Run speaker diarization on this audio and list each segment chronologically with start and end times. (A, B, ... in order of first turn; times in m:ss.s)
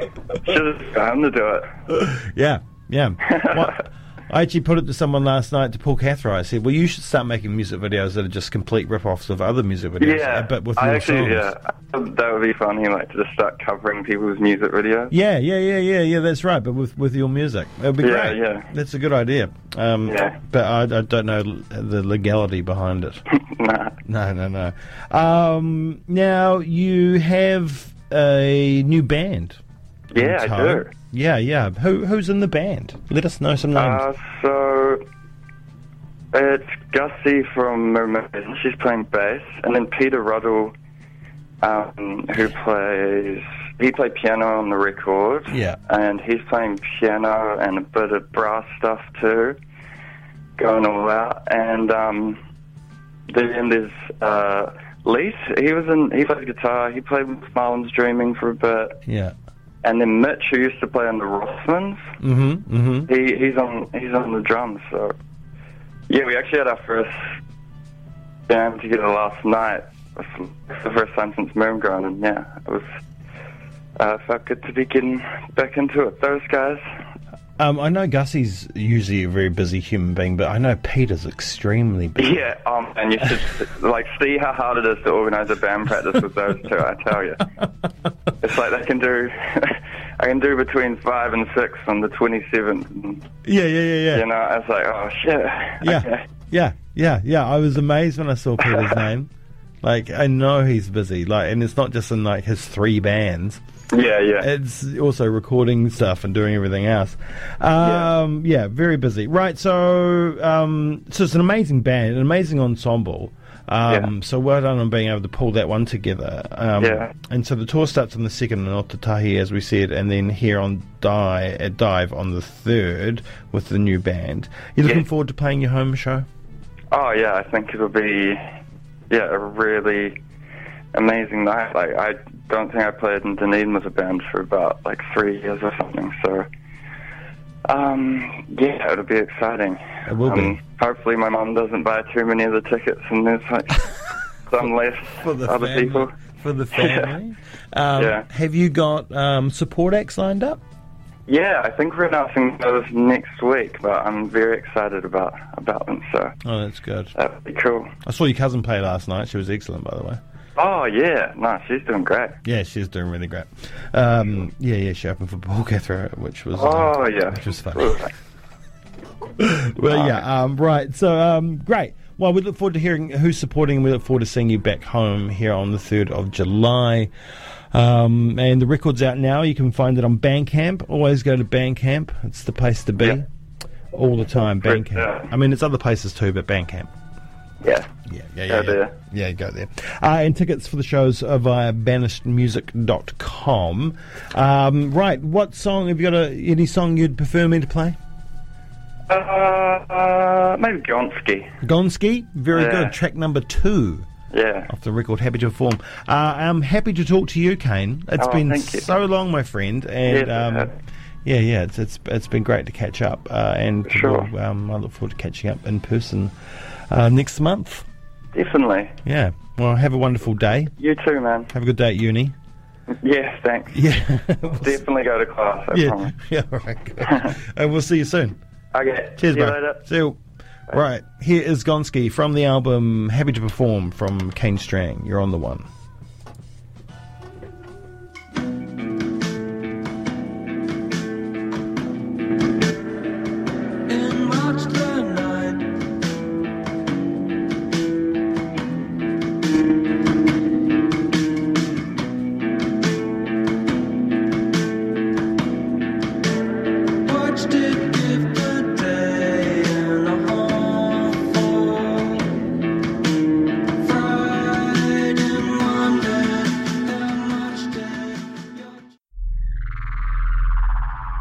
0:00.3-0:01.7 A
0:01.9-0:11.5 B
0:03.2-0:03.7 A
0:10.0-0:15.1 A
0:15.1-0:23.2 B
0:18.0-0:18.7 A
0:20.0-0:20.4 A
0:23.3-0:24.0 A
0:24.0-0:29.6 B
0:30.1-0:30.9 A
0:30.1-0:34.0 B
0:33.7-0:35.0 A
0:36.3-0:40.7 A
0:41.6-0:49.6 A
0:45.5-0:45.8 B
0:50.6-0:52.4 A
0:53.3-0:59.0 A
0:59.1-0:59.3 B
0:59.8-1:02.1 A
1:02.2-1:03.1 B
1:03.1-1:05.1 A
1:06.1-1:07.3 A
1:08.5-1:12.9 A
1:14.0-1:16.8 A
1:17.6-1:22.5 B
1:22.2-1:27.4 A
1:28.4-1:33.3 A
1:33.4-1:34.2 B
1:34.1-1:36.3 A
1:35.8-1:39.3 B
1:38.6-1:39.0 A
1:39.8-1:43.6 B
1:43.9-1:44.5 A
1:44.4-2:06.2 B
1:47.8-1:48.1 A
1:56.8-1:57.1 A
2:06.9-2:08.4 A
2:09.1-2:10.2 A
2:10.9-2:16.4 A
2:17.7-2:23.9 A
2:20.1-2:20.6 B
2:24.4-2:26.1 A
2:25.2-2:30.6 B
2:26.7-2:27.1 A
2:28.0-2:28.2 A
2:31.3-2:36.3 A
2:36.4-2:37.1 B
2:37.2-2:37.9 A
2:38.0-2:40.2 B
2:40.6-2:42.4 A
2:42.4-2:48.1 B
2:46.5-2:48.1 A
2:49.4-2:57.1 B
2:49.9-2:50.2 A
2:57.7-3:03.3 B
3:03.9-3:06.9 B
3:04.6-3:05.3 A
3:07.6-3:07.9 A
3:08.1-3:18.0 B
3:08.5-3:08.9 A
3:19.1-3:21.5 A
3:21.6-3:24.1 B
3:22.5-3:22.9 A
3:24.3-3:24.7 A
3:24.7-3:30.7 B
3:28.2-3:28.9 A
3:30.0-3:30.7 A
3:31.2-3:36.3 B
3:33.8-3:34.3 A
3:36.9-3:37.8 B
3:38.3-3:39.0 A
3:39.0-3:40.7 B
3:40.8-3:41.5 A
3:41.5-3:42.3 B
3:43.0-3:43.8 A
3:43.7-3:44.8 B
3:44.6-3:46.1 A
3:45.7-3:48.4 B
3:47.0-3:47.3 A
3:48.7-3:49.8 A
3:49.2-3:55.7 B
4:03.9-4:05.6 C
4:17.1-4:22.3 C
4:23.8-4:28.4 C